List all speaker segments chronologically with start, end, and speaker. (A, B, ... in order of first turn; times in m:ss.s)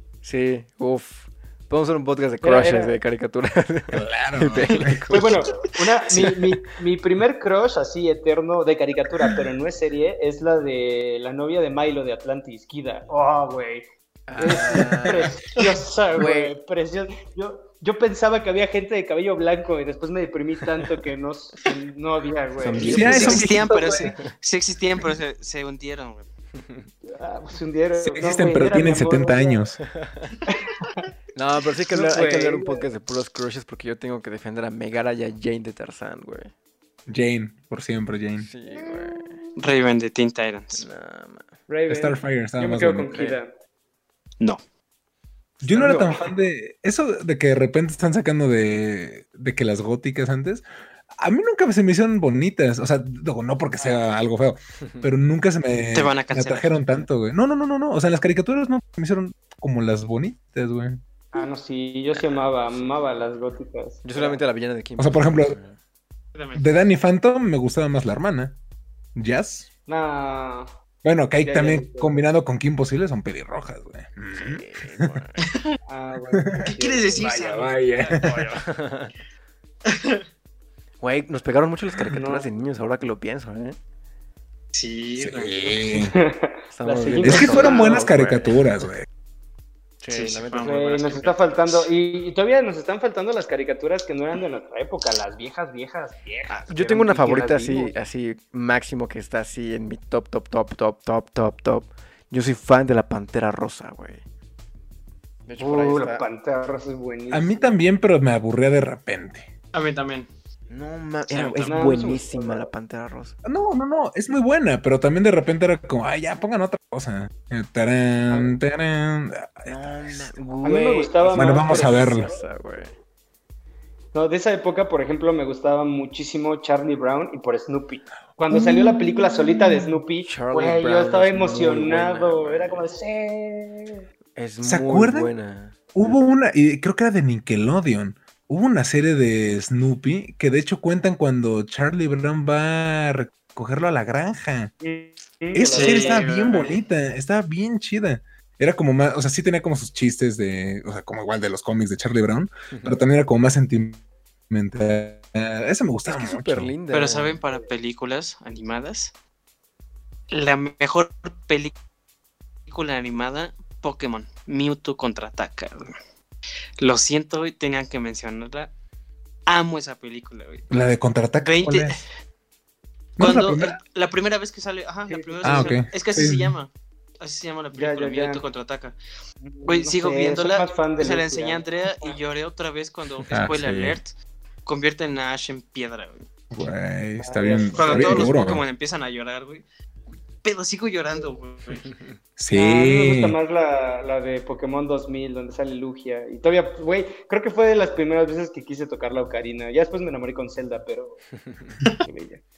0:00.2-0:05.4 A
0:02.4-0:03.0 B
0:03.9-0:05.4 C
0:04.7-0:05.4 D
0:05.1-0:13.8 B
0:06.1-0:06.4 A
0:14.3-0:15.4 A
0:14.4-0:23.7 B
0:16.1-0:16.6 A
0:22.6-0:23.6 A
0:22.8-0:24.1 C
0:23.0-0:26.3 D
0:26.6-0:26.9 A
0:27.0-0:29.6 B
0:28.0-0:29.8 C
0:29.9-0:30.3 A
0:30.5-0:31.0 B
0:31.4-0:36.5 A
0:31.9-0:32.9 B
0:37.1-0:38.5 C
0:38.4-0:39.4 A
0:38.7-0:39.5 B
0:39.6-0:40.9 D
0:40.8-0:41.5 A
0:41.7-0:43.5 B
0:41.9-0:43.3 C
0:45.6-0:50.7 C
0:45.7-0:46.1 B
0:51.2-1:01.0 C
0:55.9-0:56.7 D
1:01.3-1:04.4 B
1:02.1-1:03.3 A
1:04.0-1:05.8 A
1:05.0-1:05.6 C
1:06.4-1:06.6 D
1:06.6-1:08.6 C
1:09.1-1:09.7 C
1:09.9-1:10.7 B
1:11.0-1:15.1 C
1:11.4-1:12.1 B
1:14.3-1:15.4 A
1:15.4-1:15.7 D
1:15.9-1:17.3 B
1:16.3-1:18.5 C
1:16.6-1:18.4 D
1:18.3-1:19.1 A
1:19.9-1:20.2 D
1:21.0-1:23.8 A
1:22.2-1:22.5 B
1:24.7-1:25.8 D
1:25.2-1:26.1 C
1:26.0-1:28.1 B
1:26.7-1:28.6 A
1:27.2-1:29.1 C
1:30.0-1:30.8 A
1:30.1-1:31.9 D
1:30.6-1:37.9 B
1:36.5-1:44.2 A
1:45.5-1:46.2 A
1:45.6-1:47.8 B
1:47.3-1:49.5 C
1:49.7-1:50.3 D
1:50.7-1:53.4 A
1:51.3-1:51.9 D
1:51.6-1:52.7 B
1:53.4-2:00.3 C
1:59.7-2:02.9 A
2:00.6-2:02.4 B
2:01.3-2:02.3 C
2:04.1-2:14.0 B
2:08.5-2:10.0 C
2:10.2-2:12.9 A
2:14.4-2:15.8 A
2:14.6-2:15.3 C
2:16.0-2:24.7 C
2:24.8-2:26.3 B
2:25.5-2:36.7 C
2:25.7-2:26.8 D
2:32.7-2:33.0 A
2:36.1-2:37.4 A
2:36.9-2:39.1 D
2:40.3-2:41.7 D
2:42.7-2:46.0 D
2:46.8-2:48.7 D
2:49.5-2:50.7 D
2:50.7-2:52.0 C
2:51.4-2:52.0 D
2:53.2-2:53.8 C
2:53.2-2:59.0 D
2:55.1-2:55.7 B
2:55.4-2:56.6 C
2:57.7-2:58.4 B
2:59.4-3:02.2 B
2:59.6-3:06.3 D
3:03.3-3:04.0 C
3:06.5-3:08.7 C
3:07.2-3:08.4 B
3:07.7-3:09.6 D
3:10.4-3:11.9 D
3:11.9-3:12.2 A
3:12.4-3:13.4 C
3:12.5-3:21.2 B
3:22.0-3:22.4 B